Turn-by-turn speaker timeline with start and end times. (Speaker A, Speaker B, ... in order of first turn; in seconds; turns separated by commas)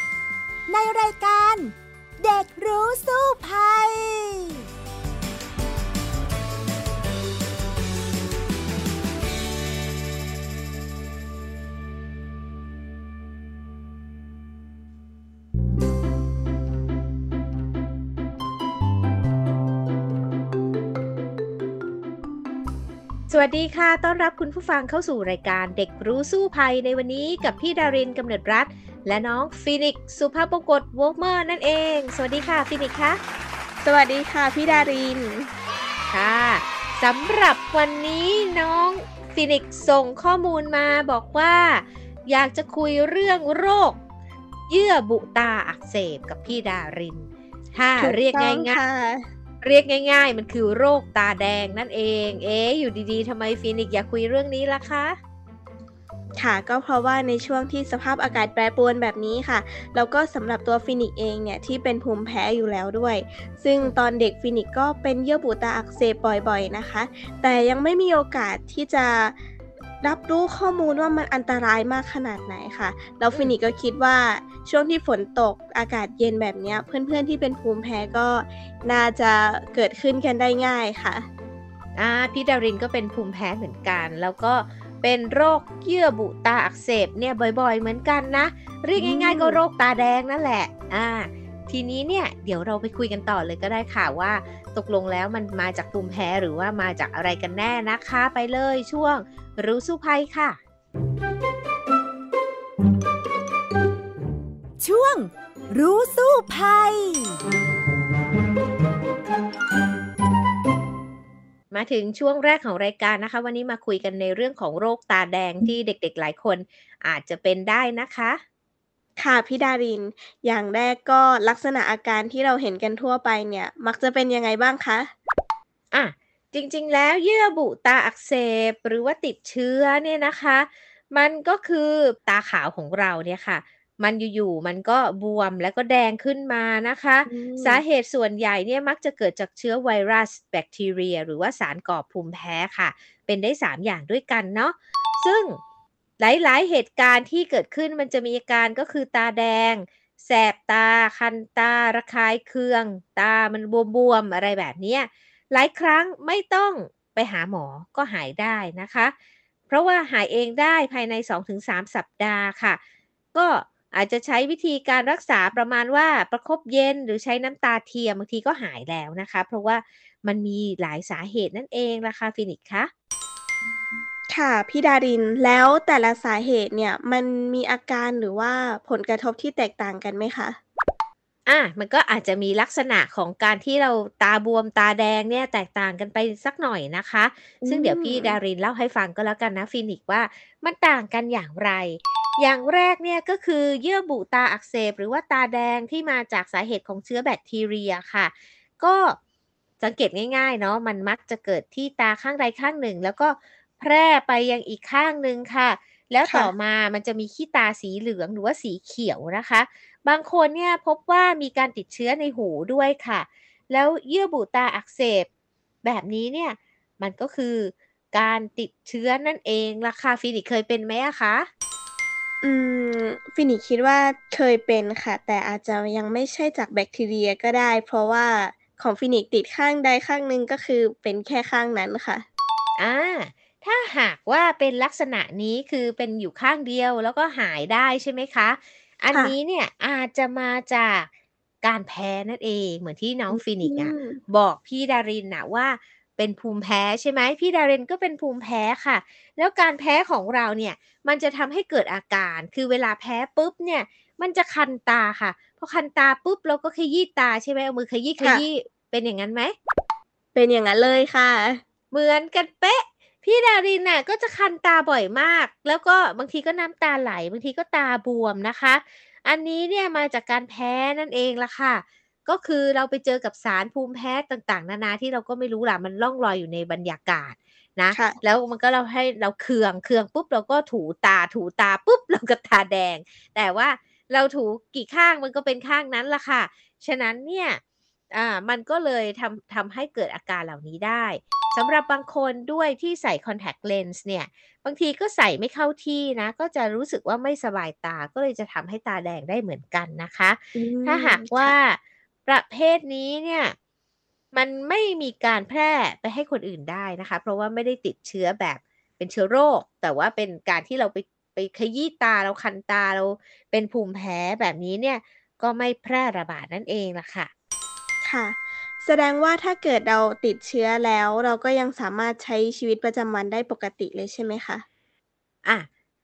Speaker A: 0.7-4.6, Speaker B: 23.3-33.2, Speaker C: 33.8-35.5, Speaker B: 36.1-44.0, Speaker B: 44.7-48.8, Speaker C: 48.0-49.2, Speaker B: 49.6-55.1, Speaker C: 56.4-69.3, Speaker C: 70.0-81.3, Speaker B: 82.0-100.6, Speaker C: 89.0-89.6, Speaker A: 104.8-107.4, Speaker B: 111.7-118.4, Speaker C: 119.2-125.1, Speaker B: 125.9-145.6, Speaker C: 137.3-137.8, Speaker B: 146.2-159.1, Speaker B: 159.7-162.8, Speaker B: 163.3-172.9, Speaker C: 174.3-180.6, Speaker B: 181.5-199.2, Speaker C: 187.6-188.4, Speaker B: 199.8-215.3, Speaker C: 206.2-206.5, Speaker B: 215.8-221.5, Speaker C: 222.4-232.2, Speaker B: 232.8-241.1, Speaker B: 241.6-259.5, Speaker C: 243.3-244.2, Speaker C: 260.3-261.6, Speaker B: 261.9-287.6, Speaker C: 277.9-278.2, Speaker B: 288.1-303.6, Speaker C: 300.5-301.5, Speaker B: 304.3-317.3, Speaker C: 318.0-324.6